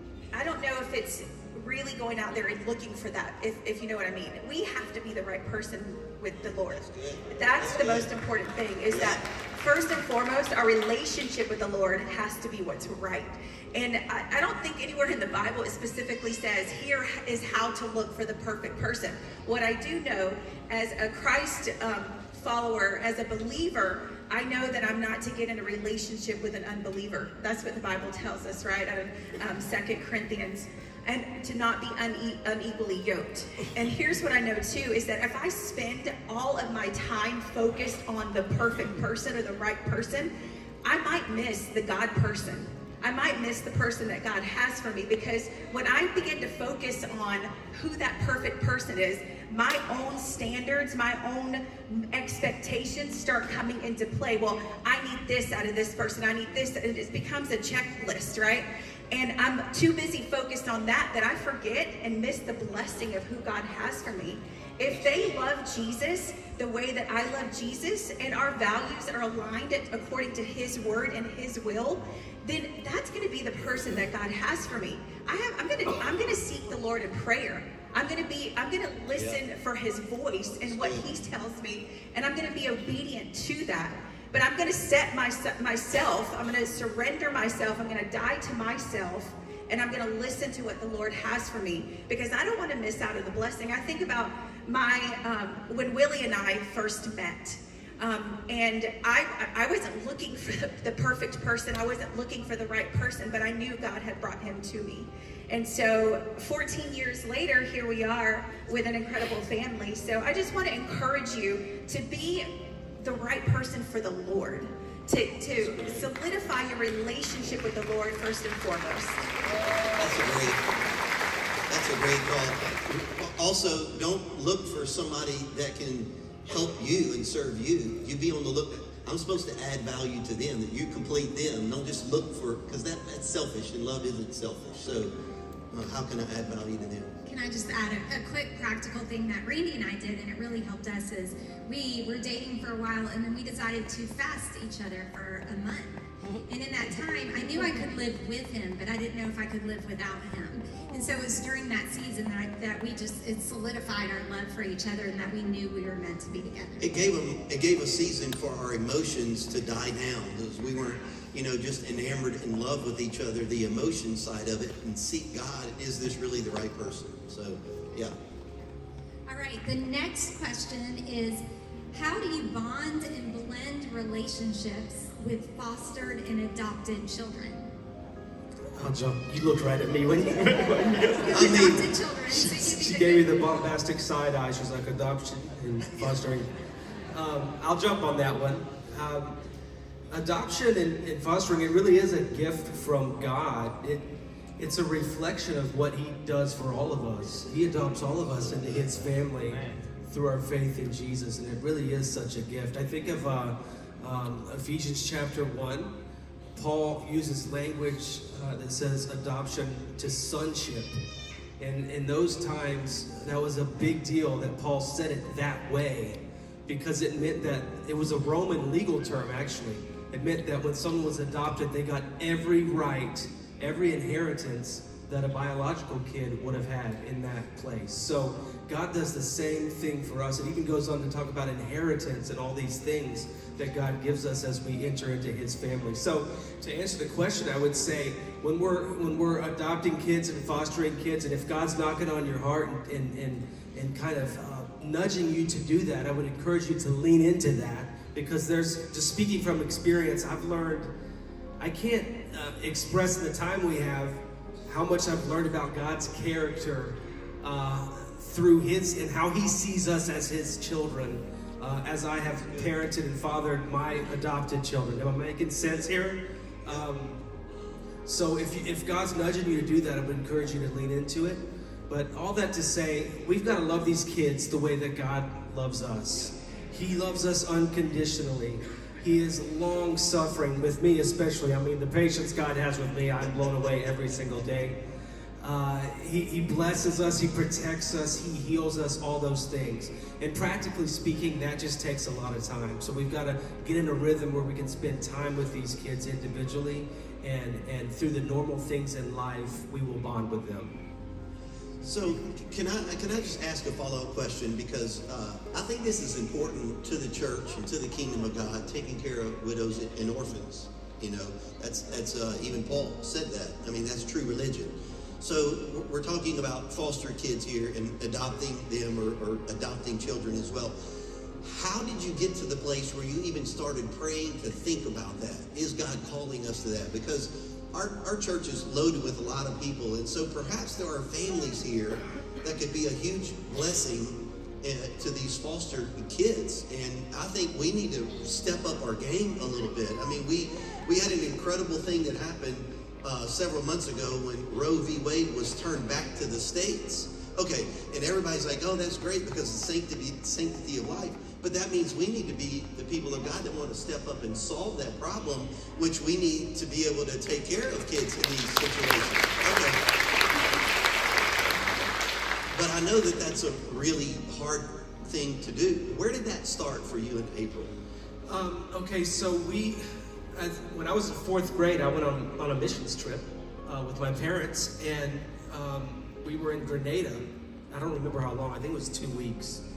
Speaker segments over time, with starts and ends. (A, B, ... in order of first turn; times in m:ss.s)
0:00.3-0:40.3 A
0:06.5-0:08.1 B
0:08.9-0:09.2 B
0:40.8-1:52.5 A
1:19.1-1:19.4 B
1:20.6-1:21.1 B
1:53.0-1:59.2 A
1:55.6-1:56.0 B
2:00.0-2:00.6 B
2:01.7-2:15.1 B
2:15.7-2:17.1 B
2:17.2-2:36.9 C
2:36.8-2:48.1 B
2:49.3-2:51.4 C
2:51.9-2:57.7 C
2:58.8-3:06.5 D
3:01.3-3:01.8 B
3:01.4-3:03.4 C
3:07.1-3:09.3 D
3:10.1-3:14.0 D
3:14.6-3:25.9 D
3:26.5-3:31.0 D
3:31.6-4:10.9 D
4:11.6-4:27.2 D
4:28.0-4:44.8 D
4:45.4-5:00.7 D
5:01.8-5:20.7 B
5:21.4-5:59.8 B
6:02.5-6:07.7 B
6:08.3-6:19.6 D